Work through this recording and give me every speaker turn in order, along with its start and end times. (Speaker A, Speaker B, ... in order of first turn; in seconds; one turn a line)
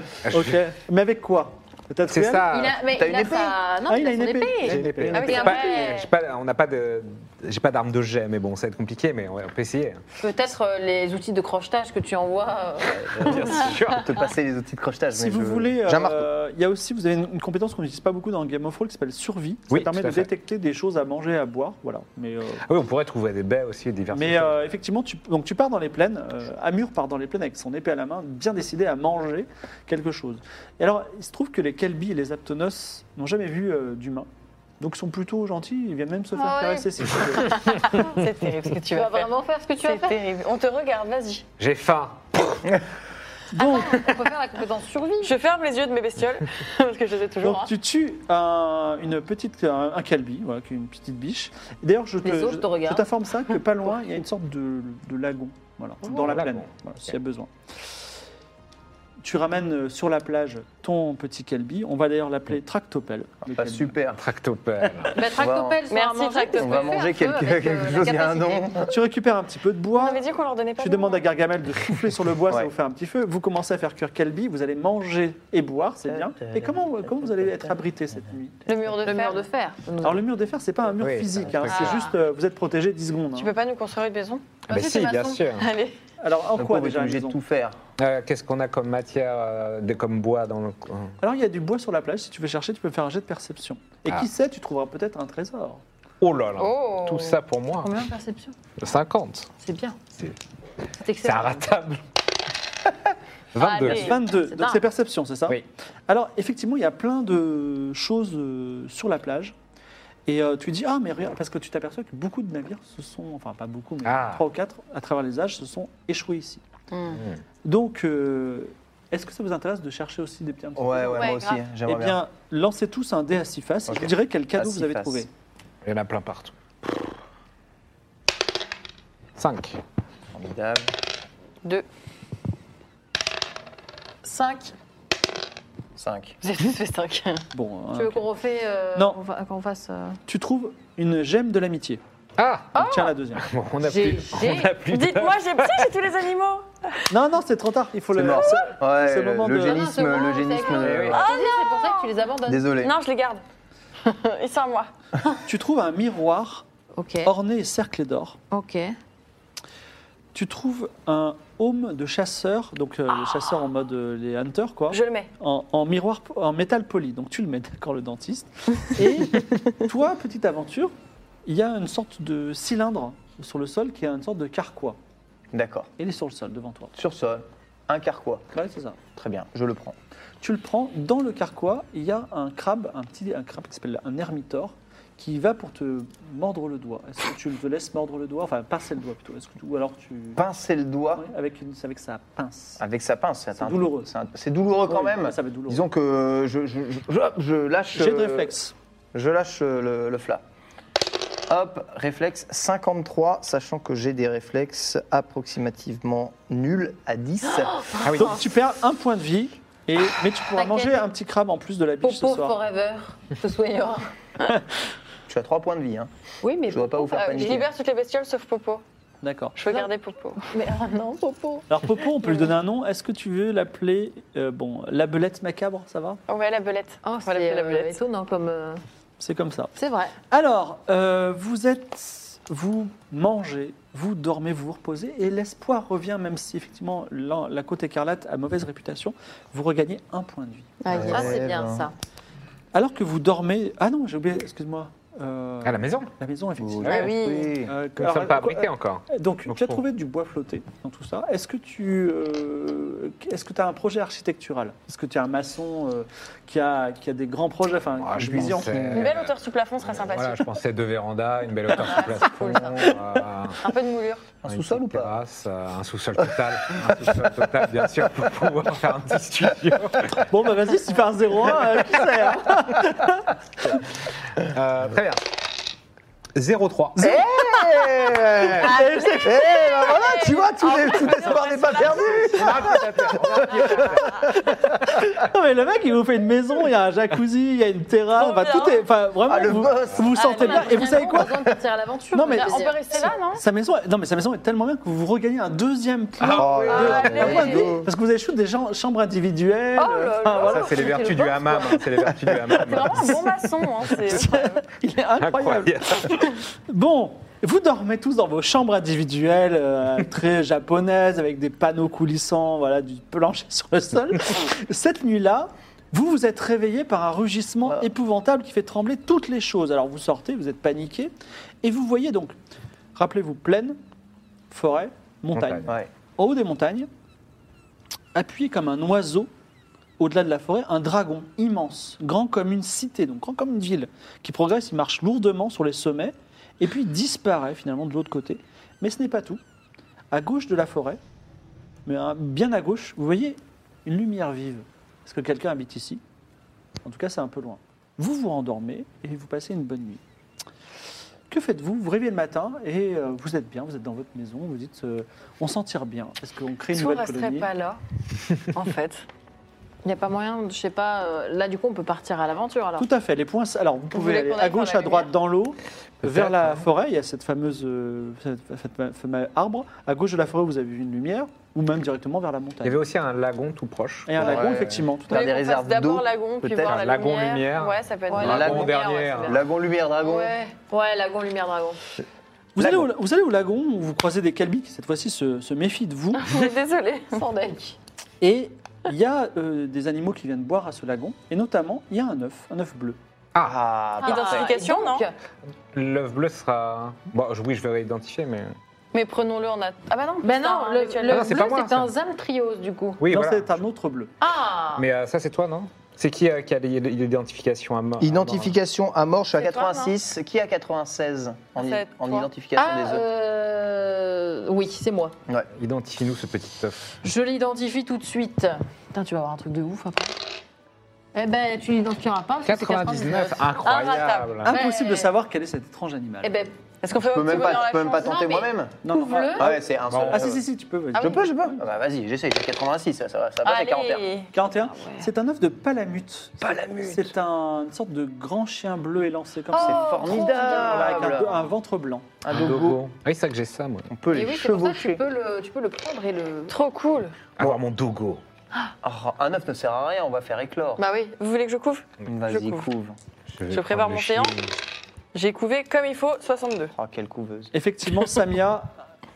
Speaker A: 0.2-0.6
Speaker B: 0.3-2.5
Speaker A: 2.1-2.8
Speaker C: 2.5-6.0
Speaker D: 2.9-3.6
Speaker B: 3.9-5.3
Speaker A: 4.6-10.0
Speaker D: 4.9-5.5
Speaker E: 5.1-6.1
Speaker C: 10.2-13.6
Speaker D: 13.0-16.3
Speaker A: 13.2-14.1
Speaker B: 15.1-22.6
Speaker A: 19.7-20.3
Speaker A: 22.6-24.7
Speaker B: 24.1-34.3
Speaker B: 34.8-37.6
Speaker C: 36.3-38.0
Speaker E: 37.6-39.3
Speaker C: 38.9-40.2
Speaker E: 39.8-41.4
Speaker A: 41.6-42.7
Speaker B: 43.5-44.1
Speaker C: 43.5-45.3
Speaker E: 45.2-47.7
Speaker B: 47.4-57.5
Speaker C: 52.2-53.1
Speaker A: 56.0-57.1
Speaker B: 59.2-63.9
Speaker D: 63.5-64.2
Speaker A: 64.1-65.2
Speaker C: 65.1-68.7
Speaker D: 65.3-65.8
Speaker E: 65.9-67.0
Speaker D: 66.5-68.9
Speaker B: 68.8-70.2
Speaker E: 69.9-71.2
Speaker B: 70.8-78.6
Speaker D: 76.0-77.8
Speaker E: 78.7-79.5
Speaker C: 79.0-80.3
Speaker B: 80.0-83.5
Speaker A: 81.0-82.1
Speaker C: 81.7-82.1
Speaker E: 83.3-84.6
Speaker A: 84.7-85.7
Speaker C: 84.7-85.4
Speaker E: 85.5-86.0
Speaker B: 86.2-87.4
Speaker D: 86.5-87.8
Speaker A: 88.0-91.1
Speaker B: 91.2-95.8
Speaker A: 96.2-97.9
Speaker E: 96.6-97.4
Speaker C: 97.8-98.5
Speaker A: 98.8-99.5
Speaker C: 99.6-100.0
Speaker C: 101.0-101.7
Speaker A: 101.2-102.0
Speaker A: 103.5-104.2
Speaker C: 103.6-104.8
Speaker E: 103.8-104.1
Speaker B: 103.8-105.6
Speaker B: 106.1-109.5
Speaker B: 110.2-116.6
Speaker A: 114.0-114.4
Speaker E: 116.9-117.2
Speaker A: 117.1-117.4
Speaker B: 117.6-125.3
Speaker D: 120.8-122.2
Speaker E: 121.1-121.4
Speaker D: 123.9-125.2
Speaker A: 125.8-127.1
Speaker A: 129.3-129.8
Speaker D: 130.3-130.9
Speaker C: 134.2-134.7
Speaker D: 135.9-136.4
Speaker E: 136.4-137.4
Speaker B: 137.5-138.2
Speaker C: 137.9-140.2
Speaker B: 140.3-142.0
Speaker A: 142.4-145.8
Speaker E: 142.8-143.1
Speaker B: 142.8-143.5
Speaker C: 143.9-144.7
Speaker E: 144.9-147.0
Speaker B: 147.1-149.8
Speaker D: 148.1-151.2
Speaker C: 149.6-152.7
Speaker A: 150.8-151.2
Speaker E: 151.1-152.1
Speaker D: 152.4-152.9
Speaker E: 152.8-153.4
Speaker E: 154.0-154.9
Speaker B: 155.4-156.6
Speaker C: 156.9-157.3
Speaker B: 157.2-158.4
Speaker C: 158.5-158.9
Speaker B: 160.3-170.9
Speaker E: 164.9-165.3
Speaker B: 171.4-175.0
Speaker D: 175.5-175.9
Speaker B: 176.0-176.9
Speaker D: 176.9-178.4
Speaker B: 178.5-179.0
Speaker D: 179.1-179.9
Speaker B: 180.4-190.4
Speaker D: 190.3-191.2
Speaker B: 191.2-192.8
Speaker D: 192.8-198.5
Speaker B: 193.6-194.1
Speaker B: 194.9-195.8
Speaker B: 197.9-198.7
Speaker D: 199.1-200.4
Speaker D: 201.5-207.8
Speaker C: 207.7-208.0
Speaker A: 208.0-208.4
Speaker B: 208.1-212.5
Speaker C: 210.5-211.0
Speaker C: 212.0-214.1
Speaker D: 215.3-216.1
Speaker C: 216.4-217.6
Speaker D: 216.6-217.7
Speaker E: 217.1-218.8
Speaker B: 219.2-219.6
Speaker E: 219.6-220.4
Speaker C: 219.7-222.4
Speaker B: 221.7-226.2
Speaker E: 226.3-228.0
Speaker C: 227.0-228.8
Speaker B: 229.2-229.7
Speaker C: 229.7-230.1
Speaker B: 230.3-241.0
Speaker E: 240.8-241.3
Speaker D: 240.9-241.9
Speaker C: 240.9-241.9
Speaker B: 242.7-259.0
Speaker A: 245.6-246.1
Speaker D: 246.6-247.7
Speaker A: 246.8-247.3
Speaker E: 246.9-247.5
Speaker A: 247.9-249.8
Speaker A: 258.0-259.3
Speaker D: 258.3-259.1
Speaker E: 258.9-260.5
Speaker A: 259.8-263.6
Speaker E: 261.7-262.9
Speaker E: 263.6-264.2
Speaker D: 264.4-265.1
Speaker A: 264.5-270.2
Speaker B: 270.3-273.3
Speaker A: 274.3-275.2
Speaker A: 276.3-277.2
Speaker B: 277.0-279.8
Speaker D: 277.0-284.0
Speaker E: 279.1-282.8
Speaker A: 282.2-284.2
Speaker E: 283.3-284.2
Speaker B: 284.3-291.4
Speaker E: 288.1-288.8
Speaker D: 289.2-290.1
Speaker E: 290.1-290.9
Speaker C: 290.2-293.0
Speaker B: 292.1-300.7
Speaker E: 292.3-293.4
Speaker A: 296.2-297.5
Speaker D: 296.3-297.9
Speaker E: 296.7-297.7
Speaker E: 299.8-301.2
Speaker D: 300.4-302.4
Speaker A: 300.5-303.2
Speaker E: 302.6-304.6
Speaker B: 304.1-321.1
Speaker A: 305.2-306.3
Speaker B: 321.6-322.3
Speaker B: 322.9-323.8
Speaker B: 324.5-326.9
Speaker A: 325.3-325.7
Speaker B: 328.1-329.3
Speaker B: 330.0-339.4
Speaker B: 340.1-341.0
Speaker B: 341.9-346.0
Speaker B: 346.8-350.0
Speaker B: 351.3-357.5
Speaker E: 356.7-357.8
Speaker E: 358.5-359.0
Speaker C: 359.8-362.9
Speaker B: 362.8-372.8
Speaker E: 363.9-365.1
Speaker A: 366.0-366.6
Speaker A: 372.6-374.7
Speaker B: 374.1-375.3
Speaker D: 374.2-376.9
Speaker E: 375.1-378.6
Speaker A: 376.6-379.4
Speaker C: 378.1-379.4
Speaker D: 378.2-378.7
Speaker D: 379.2-380.3
Speaker C: 380.0-381.8
Speaker B: 382.6-386.5
Speaker D: 382.6-382.9
Speaker E: 386.2-387.2
Speaker C: 387.1-387.8
Speaker B: 388.2-393.0
Speaker D: 393.4-394.5
Speaker C: 394.0-395.1
Speaker E: 394.0-395.1
Speaker A: 395.7-398.5
Speaker E: 398.9-401.4
Speaker C: 400.2-403.0
Speaker A: 401.1-401.9
Speaker A: 403.0-403.6
Speaker B: 403.1-404.1
Speaker C: 404.2-404.9
Speaker A: 404.8-408.5
Speaker D: 408.0-413.0
Speaker E: 409.4-409.9
Speaker E: 411.6-412.3
Speaker C: 412.6-415.1
Speaker A: 415.6-416.9
Speaker C: 417.0-420.1
Speaker C: 421.1-423.4
Speaker A: 422.4-424.6
Speaker E: 423.6-424.4
Speaker B: 424.4-426.3
Speaker C: 424.5-425.1
Speaker C: 426.2-426.5
Speaker E: 426.8-428.4
Speaker D: 427.1-428.8
Speaker C: 428.0-429.5
Speaker B: 428.8-431.6
Speaker D: 429.3-430.4
Speaker A: 429.9-430.3
Speaker E: 430.9-431.2
Speaker D: 430.9-434.1
Speaker E: 433.4-434.3
Speaker B: 434.3-442.1
Speaker C: 434.7-435.1
Speaker D: 436.4-437.1
Speaker C: 439.5-441.2
Speaker D: 439.5-441.5
Speaker D: 442.2-442.8
Speaker A: 442.3-443.9
Speaker D: 443.9-445.0
Speaker C: 444.1-446.5
Speaker E: 446.5-447.1
Speaker A: 447.4-448.2
Speaker D: 448.8-450.8
Speaker E: 450.8-452.7
Speaker D: 452.1-452.9
Speaker A: 453.3-454.5
Speaker E: 453.5-454.3
Speaker E: 455.1-456.7
Speaker D: 456.7-457.5
Speaker B: 457.5-458.7